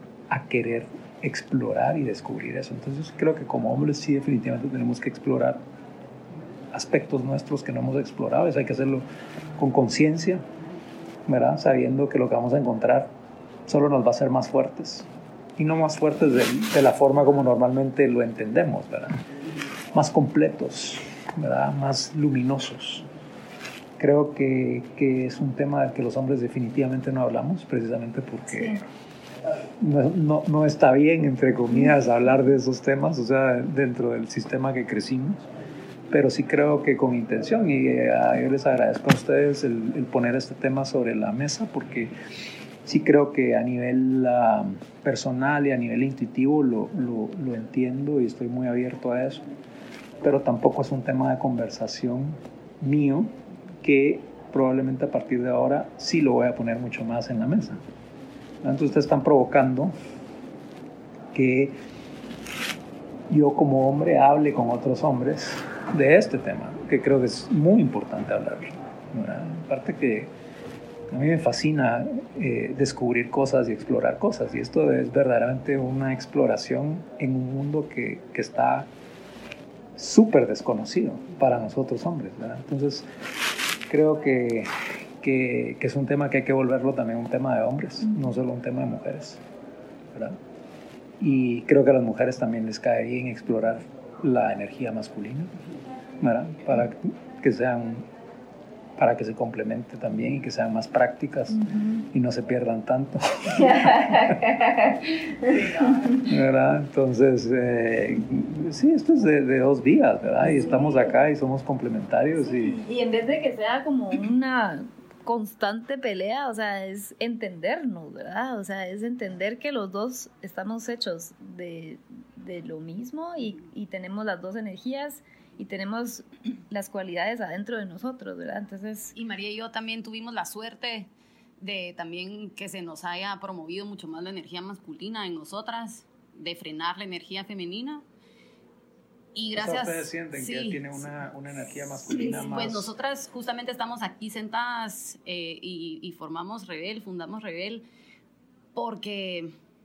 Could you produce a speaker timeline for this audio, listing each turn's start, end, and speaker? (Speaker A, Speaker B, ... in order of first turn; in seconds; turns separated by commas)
Speaker A: 0.3-5.6, Speaker A: 6.7-9.1, Speaker A: 9.6-10.4, Speaker A: 11.3-13.1, Speaker A: 13.7-19.2, Speaker A: 19.9-23.1, Speaker A: 24.0-28.8, Speaker B: 28.5-28.9, Speaker A: 29.8-35.4, Speaker A: 36.1-42.1, Speaker A: 42.8-49.5, Speaker A: 50.2-57.8, Speaker A: 58.6-59.9, Speaker A: 61.3-61.8, Speaker A: 63.3-70.3, Speaker A: 71.1-78.9, Speaker A: 80.0-83.1, Speaker A: 83.9-89.4, Speaker A: 90.1-90.4, Speaker A: 91.2-95.5, Speaker A: 96.2-98.1, Speaker A: 99.0-104.4, Speaker B: 103.6-105.9, Speaker A: 106.1-112.8, Speaker B: 110.6-111.0, Speaker B: 112.5-129.1, Speaker C: 129.2-131.1, Speaker C: 131.6-138.0, Speaker C: 139.3-140.9, Speaker A: 139.5-142.9, Speaker C: 142.3-147.8, Speaker C: 148.8-149.5